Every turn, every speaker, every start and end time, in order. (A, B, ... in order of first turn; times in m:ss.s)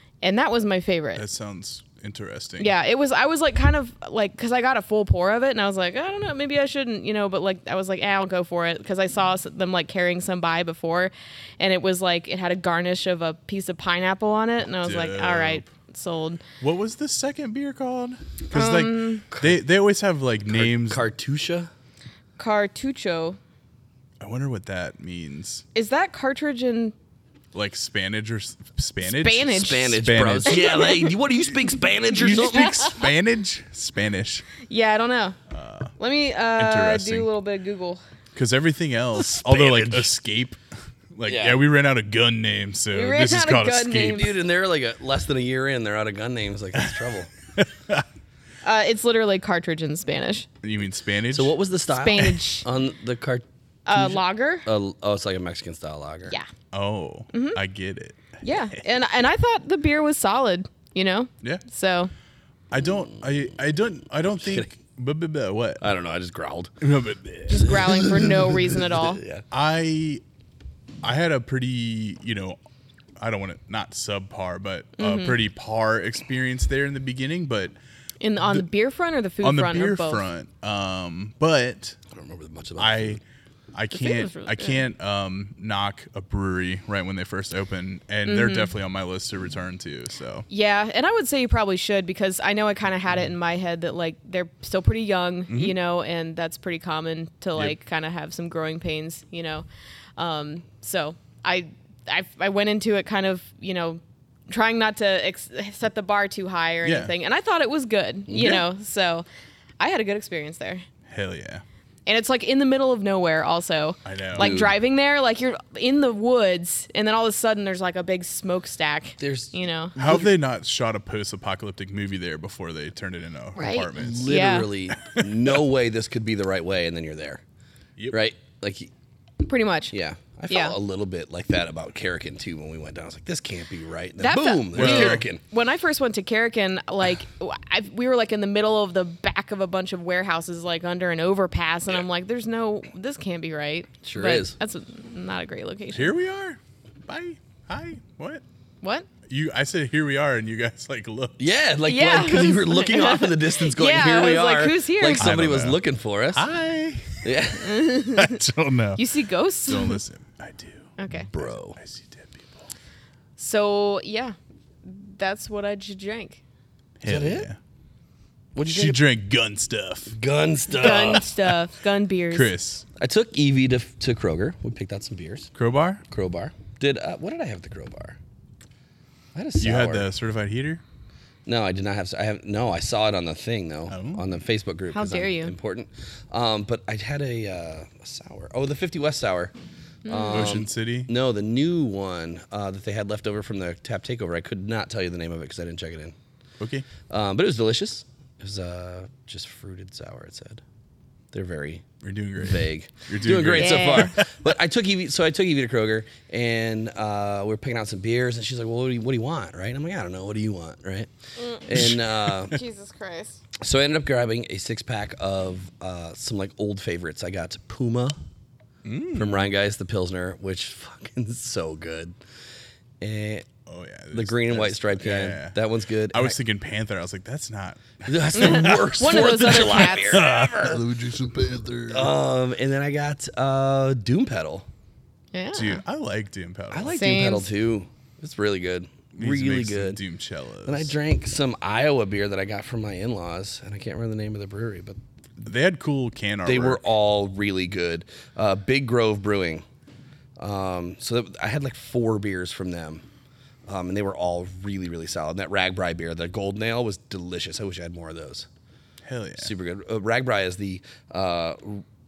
0:00.2-0:01.2 A
0:01.2-0:02.7 B
0:02.6-0:16.4 A
0:14.8-0:15.7 B
0:16.6-0:21.0 B
0:18.5-0:19.2 A
0:19.3-0:19.6 C
0:20.5-0:21.7 C
0:22.4-0:23.4 A
0:24.2-0:25.6 B
0:25.8-0:27.0 A
0:27.5-0:30.9 B
0:29.0-0:30.0 A
0:29.4-0:32.9 C
0:30.5-0:30.9 A
0:32.1-0:34.5 B
0:34.6-0:35.4 A
0:35.5-0:35.9 B
0:36.0-0:38.0 A
0:36.6-0:37.3 B
0:38.4-0:40.6 B
0:39.2-0:40.1 C
0:41.2-0:44.3 B
0:41.2-0:41.6 C
0:42.9-0:44.4 A
0:44.1-0:47.3 C
0:47.6-0:48.0 B
0:48.6-0:50.5 A
0:50.6-0:51.6 B
0:51.3-0:56.4 C
0:51.9-0:52.6 A
0:53.9-0:54.7 A
0:56.7-0:58.4 B
0:57.3-0:57.6 A
0:58.4-1:02.1 A
1:02.7-1:05.8 B
1:02.8-1:03.2 C
1:04.4-1:04.7 C
1:05.8-1:06.7 C
1:06.8-1:07.7 B
1:07.5-1:09.2 A
1:07.5-1:09.4 C
1:09.5-1:10.2 B
1:11.0-1:12.6 B
1:13.2-1:17.8 B
1:15.0-1:15.4 A
1:18.2-1:20.2 A
1:19.4-1:22.0 B
1:22.1-1:23.2 C
1:22.8-1:23.2 B
1:23.7-1:30.5 B
1:23.9-1:24.8 A
1:28.2-1:28.7 A
1:30.5-1:39.6 A
1:40.2-1:49.2 A
1:46.8-1:47.1 B
1:48.3-1:48.6 C
1:49.8-1:50.8 A
1:51.1-1:51.6 B
1:52.1-2:00.0 A
1:54.0-1:54.6 B
1:54.4-1:54.8 C
1:59.2-2:00.3 C
2:00.0-2:04.3 B
2:03.6-2:04.7 A
2:03.9-2:07.4 C
2:05.0-2:05.3 B
2:08.1-2:08.9 C
2:09.4-2:09.9 A
2:09.9-2:15.4 C
2:10.5-2:10.8 A
2:14.2-2:26.2 A
2:14.7-2:15.2 B
2:24.0-2:24.6 C
2:25.9-2:28.4 B
2:28.8-2:29.1 A
2:29.3-2:31.4 B
2:31.4-2:36.4 C
2:31.9-2:35.3 A
2:35.2-2:35.8 B
2:36.3-2:37.3 B
2:37.2-2:37.8 C
2:37.6-2:38.4 A
2:38.1-2:39.0 B
2:39.0-2:40.0 A
2:39.7-2:42.7 B
2:41.0-2:41.3 A
2:41.3-2:41.8 C
2:43.4-2:46.4 A
2:47.0-2:47.6 B
2:47.0-2:47.5 C
2:48.6-2:49.0 C
2:48.6-2:50.2 B
2:50.1-2:51.3 C
2:50.7-2:52.5 A
2:52.3-2:52.8 B
2:53.0-2:55.5 C
2:55.6-2:56.0 B
2:56.1-2:58.2 C
2:59.4-3:00.1 C
2:59.6-3:00.8 B
3:01.5-3:09.5 C
3:03.9-3:04.2 B
3:04.9-3:05.5 A
3:10.1-3:10.5 A
3:10.1-3:16.2 C
3:10.3-3:11.1 B
3:16.6-3:16.9 B
3:17.1-3:20.6 C
3:21.3-3:21.9 C
3:22.0-3:24.3 B
3:22.4-3:31.1 C
3:23.6-3:24.2 A
3:31.4-3:31.6 A
3:31.6-3:32.6 C
3:31.8-3:32.0 B
3:32.4-3:33.4 A
3:33.6-3:38.2 C
3:38.8-3:39.5 B
3:39.2-3:42.2 C
3:43.0-3:43.5 C
3:43.7-3:45.6 B
3:44.1-3:46.4 C
3:46.1-3:51.9 B
3:48.0-3:50.9 C
3:48.4-3:50.3 A
3:51.8-3:54.7 C
3:55.3-3:55.8 A
3:55.5-3:57.0 B
3:56.7-4:00.0 C
3:56.9-3:57.5 A
3:59.2-4:00.9 B
4:00.7-4:05.0 C
4:05.4-4:06.8 B
4:06.5-4:09.6 C
4:10.4-4:13.0 C
4:13.7-4:18.5 C
4:19.1-4:19.5 B
4:19.4-4:21.8 C